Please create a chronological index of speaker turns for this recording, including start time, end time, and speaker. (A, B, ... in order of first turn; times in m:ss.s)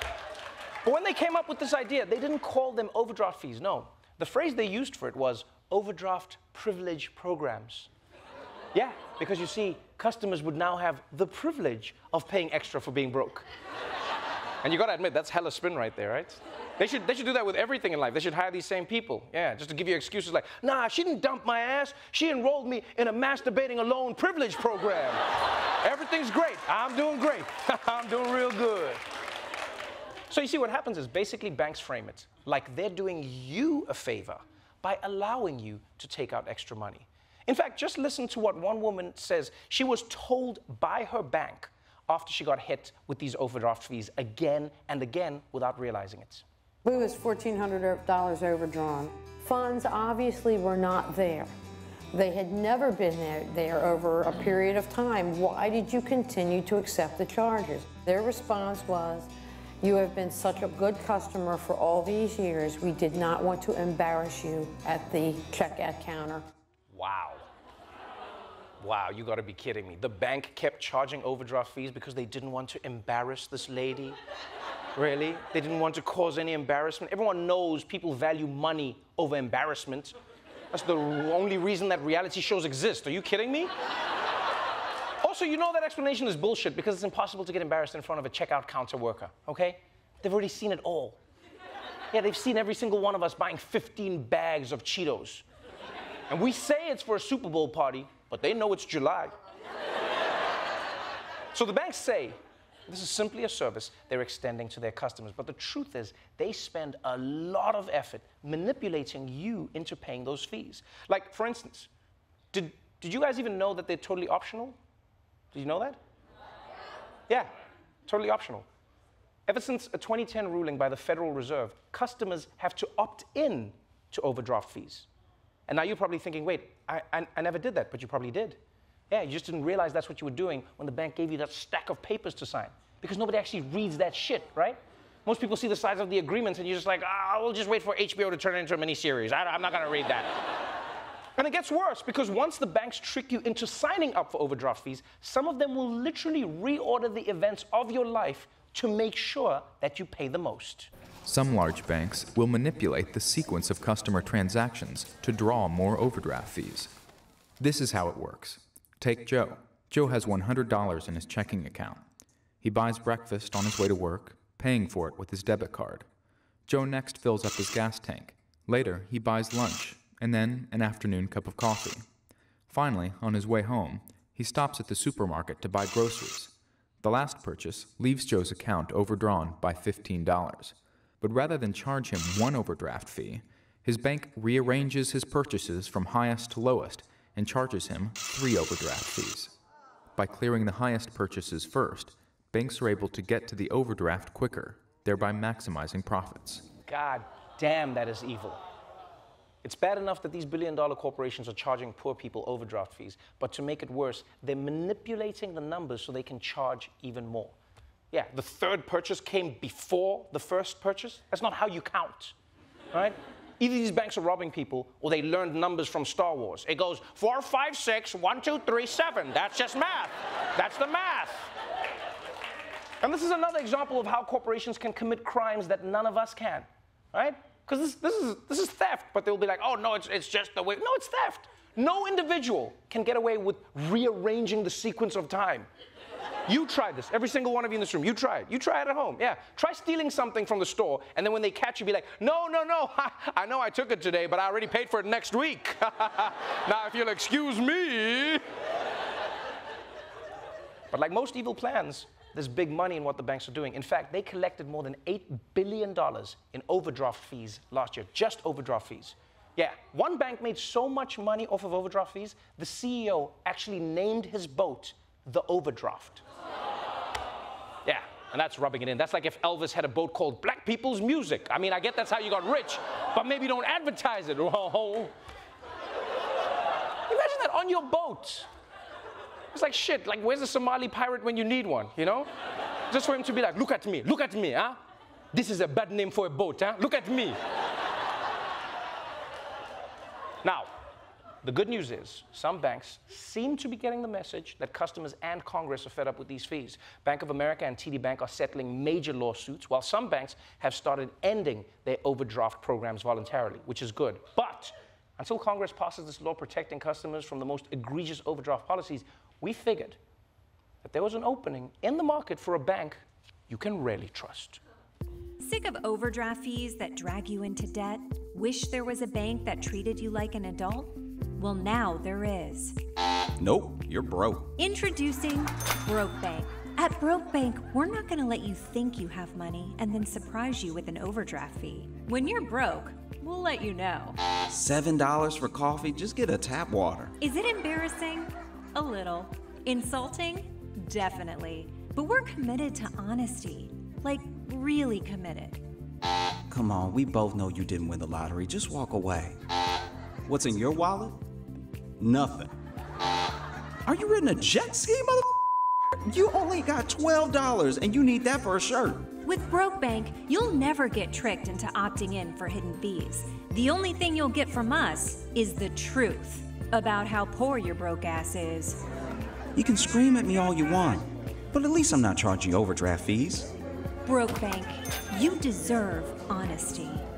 0:00.8-0:07.9 A
0:08.7-0:13.5 A
0:14.6-0:25.2 A
0:25.8-0:29.0 A
0:30.3-0:46.4 A
0:46.8-0:51.5 B
0:52.1-0:59.3 B
0:59.8-1:06.5 B
1:06.9-1:07.4 A
1:08.8-1:14.2 A
1:15.0-1:20.2 A
1:20.7-1:23.7 A
1:25.2-1:31.2 A
1:32.1-1:35.4 A
1:36.3-1:39.3 A
1:41.5-1:51.9 A
1:52.5-1:54.8 A
1:55.5-1:56.0 A
1:58.1-1:58.7 A
1:59.5-2:05.1 A
2:05.7-2:08.6 A
2:09.1-2:20.3 A
2:21.4-2:30.9 A
2:31.2-2:37.0 C
2:37.6-2:42.0 C
2:42.6-2:46.1 C
2:46.7-2:52.0 C
2:52.7-3:09.6 C
3:10.2-3:16.6 C
3:16.9-3:18.6 A
3:19.6-3:27.6 A
3:28.1-3:32.4 A
3:32.9-3:41.4 A
3:43.0-3:55.7 A
3:56.5-4:08.4 A
4:10.9-4:26.2 A
4:27.8-4:35.1 A
4:37.1-4:38.5 A
4:39.5-4:42.3 A
4:42.9-4:44.8 A
4:45.3-4:47.4 A
4:50.4-4:50.7 A
4:51.4-5:10.0 A
5:10.8-5:14.6 A
5:15.4-5:22.8 D
5:23.4-5:24.4 E
5:24.6-5:34.2 D
5:34.5-5:37.1 E
5:37.2-5:45.6 D
5:46.5-5:49.3 E
5:50.3-5:51.2 E
5:52.0-5:52.5 E
5:53.9-5:55.2 E
5:56.1-5:59.1 E
5:59.2-6:08.8 D
6:09.6-6:13.5 E
6:14.0-6:17.1 D